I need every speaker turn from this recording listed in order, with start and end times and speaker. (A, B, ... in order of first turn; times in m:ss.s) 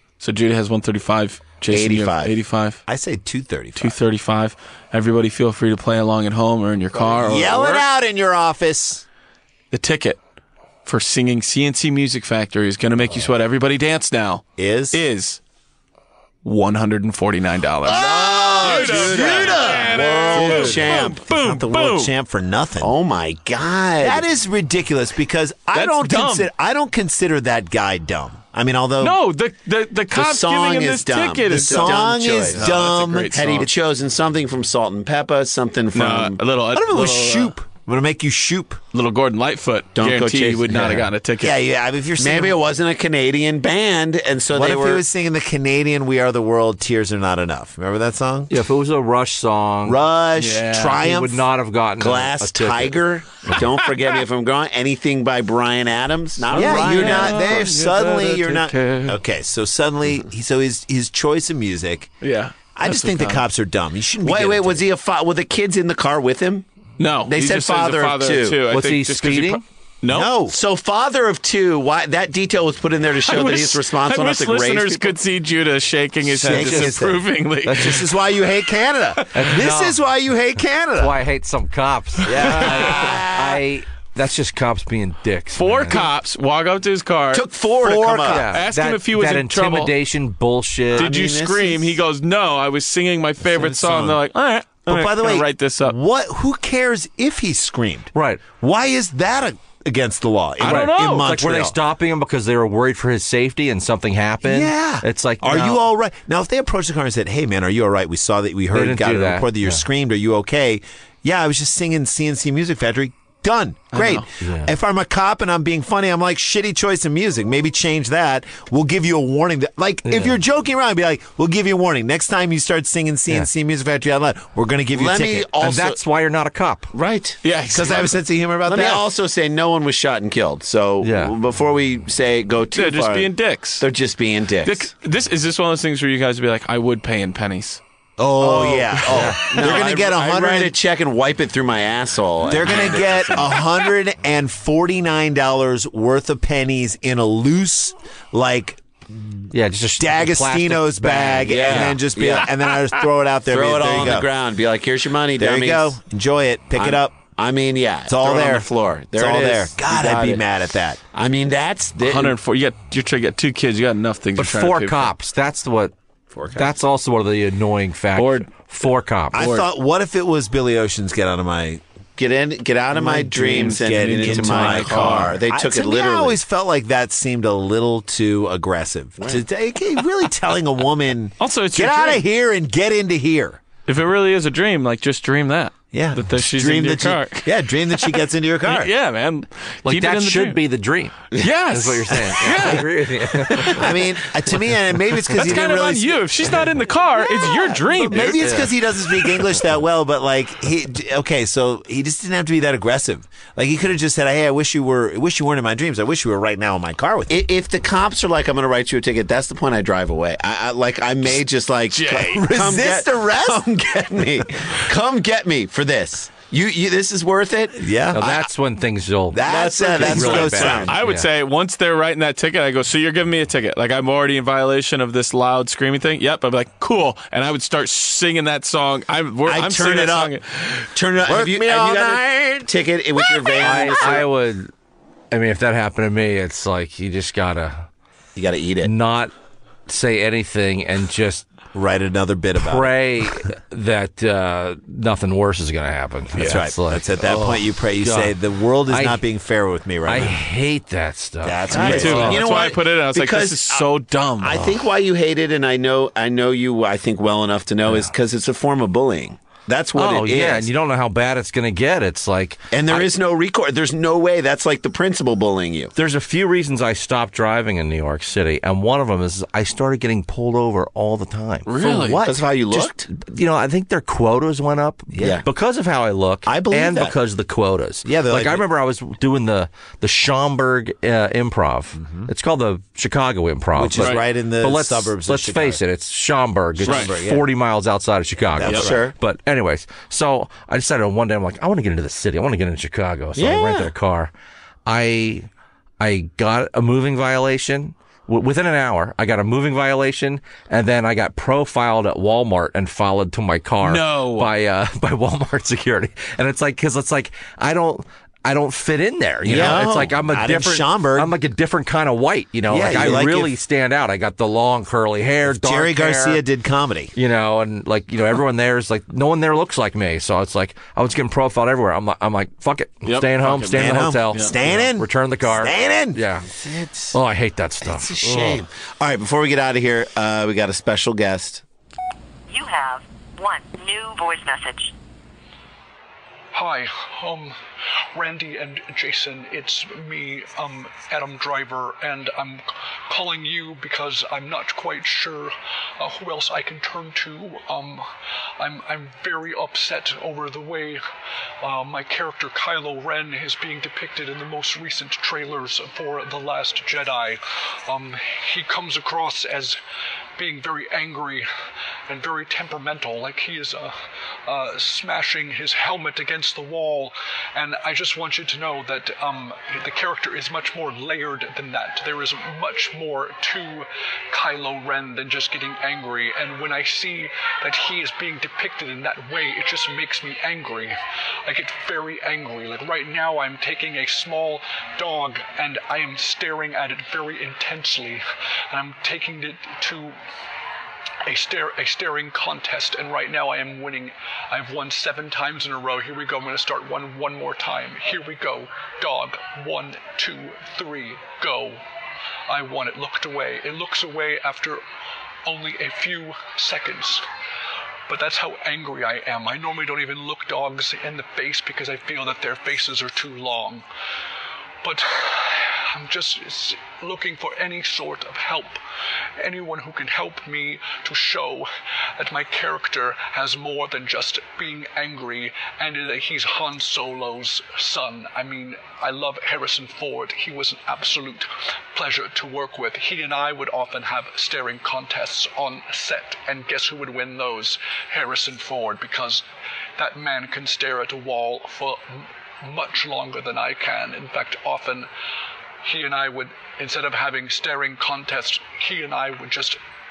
0:00.2-0:02.8 A
0:01.7-0:02.3 B
0:02.9-0:04.0 C
0:03.8-0:07.8 A
0:07.0-0:09.0 C
0:09.7-0:10.2 A
0:10.8-0:15.4 A
0:14.6-0:15.0 C
0:16.4-0:22.1 A
0:17.8-0:21.2 B
0:17.8-0:22.9 C
0:22.8-0:24.2 B
0:24.0-0:29.2 C
0:25.7-0:26.5 A
0:29.0-0:33.7 A
0:30.1-0:32.6 B
0:31.5-0:33.7 C
0:33.3-0:36.4 B
0:35.9-0:37.5 A
0:36.7-0:38.8 C
0:38.9-0:41.6 A
0:40.0-0:41.0 B
0:40.7-0:41.0 D
0:41.0-0:42.6 C
0:42.2-0:45.0 B
0:44.5-0:48.5 C
0:48.5-0:50.0 D
0:49.8-0:51.5 C
0:50.4-0:51.0 A
0:51.0-0:53.0 D
0:52.0-0:57.7 B
0:53.6-0:54.2 A
0:56.4-0:59.2 A
0:56.5-1:02.1 C
1:02.2-1:03.4 A
1:02.7-1:04.9 C
1:04.2-1:06.6 B
1:07.0-1:10.3 A
1:07.2-1:08.6 B
1:08.7-1:09.6 D
1:10.0-1:10.6 C
1:10.5-1:15.2 B
1:13.2-1:18.1 A
1:16.4-1:21.2 C
1:16.5-1:17.0 B
1:17.6-1:18.0 D
1:19.2-1:19.4 A
1:19.3-1:20.0 D
1:21.0-1:26.1 D
1:22.2-1:22.8 A
1:22.2-1:23.5 C
1:22.9-1:23.5 B
1:25.5-1:27.5 A
1:27.3-1:28.5 B
1:27.8-1:28.5 C
1:28.3-1:31.1 D
1:28.5-1:29.9 A
1:30.9-1:36.0 A
1:31.0-1:31.7 C
1:31.1-1:31.9 B
1:33.4-1:34.2 C
1:34.9-1:41.8 C
1:38.1-1:38.4 D
1:40.6-1:41.3 A
1:40.6-1:45.8 D
1:44.4-2:05.5 C
1:48.7-1:49.8 D
1:53.9-1:54.2 A
1:54.4-1:54.7 D
2:00.0-2:00.4 D
2:04.9-2:06.0 B
2:05.6-2:06.9 D
2:06.9-2:07.4 B
2:07.4-2:08.2 A
2:07.7-2:09.1 C
2:08.6-2:14.9 B
2:11.0-2:11.3 D
2:12.7-2:13.9 A
2:14.6-2:17.8 A
2:18.2-2:20.8 C
2:18.4-2:23.6 B
2:19.1-2:19.4 D
2:19.6-2:19.8 A
2:22.4-2:29.4 C
2:29.5-2:32.0 D
2:30.0-2:34.3 C
2:31.5-2:32.5 B
2:32.4-2:32.8 A
2:33.5-2:36.0 B
2:35.4-2:37.2 C
2:36.8-2:40.4 B
2:38.1-2:41.0 C
2:41.1-2:42.4 B
2:42.0-2:45.1 A
2:44.4-2:45.9 D
2:46.3-2:46.7 B
2:46.5-2:49.4 D
2:48.1-2:48.5 A
2:49.3-2:51.8 C
2:49.4-2:49.6 A
2:52.2-2:56.4 B
2:52.9-2:55.4 A
2:53.5-3:03.6 C
3:01.4-3:02.2 A
3:03.8-3:10.6 A
3:05.9-3:08.9 C
3:09.8-3:11.1 D
3:11.3-3:14.2 A
3:11.7-3:13.9 D
3:12.4-3:12.8 C
3:13.6-3:27.4 C
3:15.3-3:18.7 A
3:18.4-3:18.7 D
3:27.3-3:37.9 B
3:31.9-3:32.5 A
3:32.2-3:33.7 C
3:37.8-3:38.4 C
3:38.1-3:41.3 D
3:39.3-3:40.9 C
3:39.4-3:41.0 B
3:40.6-3:50.9 A
3:49.4-3:50.3 C
3:51.0-3:53.4 C
3:51.0-3:54.3 B
3:53.6-3:54.7 D
3:55.3-3:57.9 D
3:58.4-3:58.9 B
3:58.8-3:59.3 D
3:59.9-4:01.5 D
4:01.7-4:02.9 C
4:02.6-4:08.3 D
4:06.4-4:10.4 C
4:08.9-4:09.2 D
4:10.0-4:12.4 D
4:11.4-4:12.8 C
4:11.7-4:14.7 A
4:11.7-4:13.8 B
4:14.4-4:20.7 B
4:17.8-4:18.1 D
4:20.0-4:23.1 D
4:22.7-4:25.9 B
4:25.9-4:31.7 D
4:31.6-4:32.2 A
4:31.8-4:32.4 C
4:32.1-4:33.1 B
4:32.7-4:54.3 D
4:35.1-4:35.4 C
4:35.2-4:35.4 B
4:36.4-4:37.1 B
4:38.0-4:38.7 C
4:42.0-4:42.3 C
4:43.8-4:45.8 C
4:46.8-4:47.5 C
4:46.9-4:47.1 A
4:48.6-4:48.9 C
4:48.6-4:49.1 B
4:53.4-4:53.9 B
4:54.8-4:55.5 D
4:56.0-5:16.4 D
5:03.8-5:04.5 A
5:09.4-5:11.3 C
5:09.5-5:09.9 B
5:12.7-5:13.5 C
5:15.4-5:17.1 C
5:17.1-5:26.5 D
5:23.0-5:24.5 A
5:23.7-5:26.2 C
5:26.6-5:27.1 B
5:27.1-5:28.6 D
5:27.8-5:31.6 B
5:32.5-5:34.9 E
5:36.5-5:37.6 F
5:38.1-5:48.1 F
5:48.6-5:51.0 F
5:51.6-5:59.8 F
6:00.4-6:01.5 F
6:02.1-6:03.9 F
6:04.4-6:30.2 F
6:31.2-6:41.8 F
6:42.5-6:44.8 F
6:45.4-6:47.2 F
6:48.1-6:53.8 F
6:54.8-6:58.8 F
6:59.4-7:19.4 F
7:20.0-7:25.1 F
7:25.8-7:29.8 F